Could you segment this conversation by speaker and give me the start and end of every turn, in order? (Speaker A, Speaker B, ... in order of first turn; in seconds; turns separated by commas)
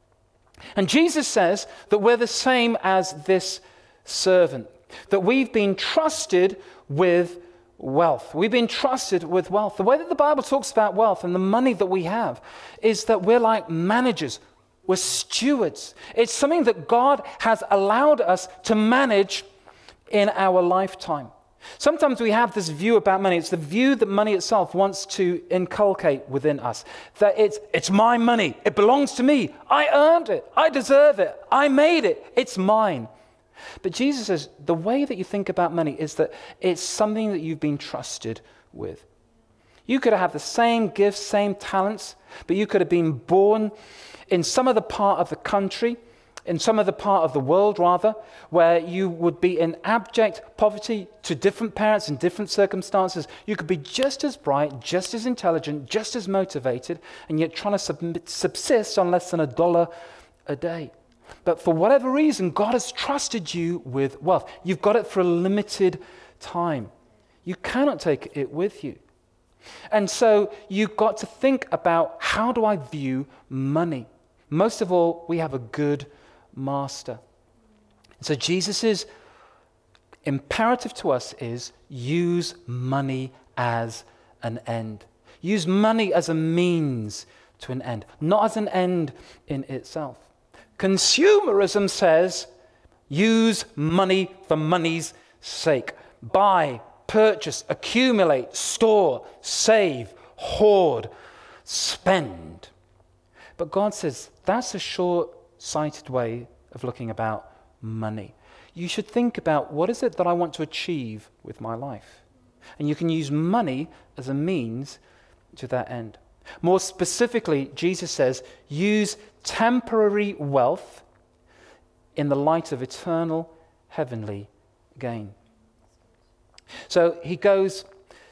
Speaker A: 0.8-19.4, Speaker A: 20.1-33.1, Speaker A: 33.8-39.1, Speaker A: 39.9-43.7, Speaker A: 44.3-59.9, Speaker A: 60.5-60.9, Speaker A: 61.4-66.9, Speaker A: 67.4-69.0, Speaker A: 69.9-77.2, Speaker A: 78.2-79.1, Speaker A: 80.2-92.5, Speaker A: 93.1-101.1, Speaker A: 101.6-102.7, Speaker A: 103.6-112.2, Speaker A: 112.8-115.0, Speaker A: 115.5-121.0, Speaker A: 122.2-125.3, Speaker A: 126.9-127.8